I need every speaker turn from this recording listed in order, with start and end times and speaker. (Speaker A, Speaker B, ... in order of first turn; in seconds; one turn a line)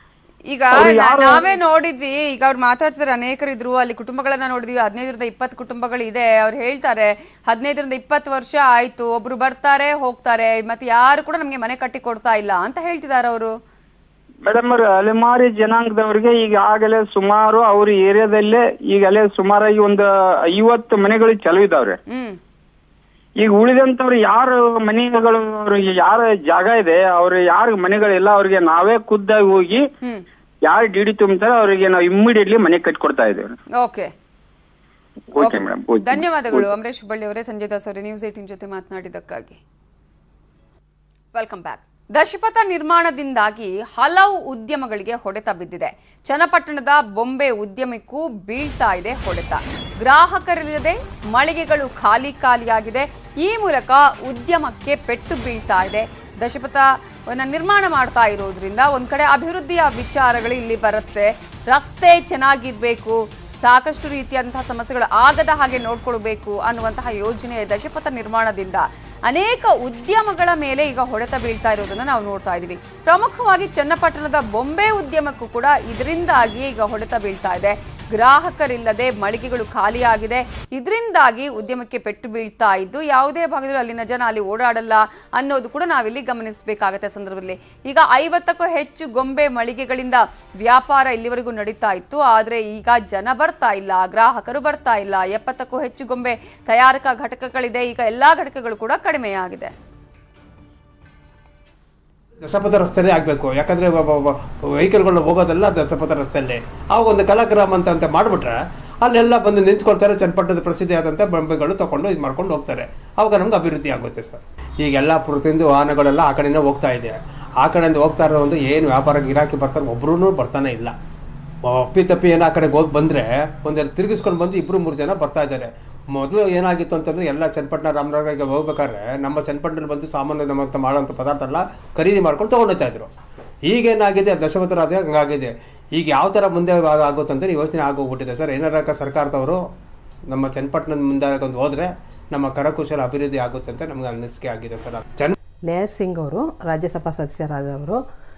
Speaker A: 0.5-13.5
Speaker B: 0.8-1.4
Speaker B: 14.5-22.0
Speaker A: 22.1-22.4
Speaker B: 23.4-29.9
Speaker B: 30.7-33.5
Speaker A: 33.8-34.1
Speaker B: 35.3-36.7
Speaker A: 35.4-39.6
Speaker A: 41.3-99.7
Speaker C: 102.4-121.0
Speaker C: 121.7-133.1
Speaker C: 133.7-139.6
Speaker C: 140.3-145.4
Speaker D: 145.7-148.0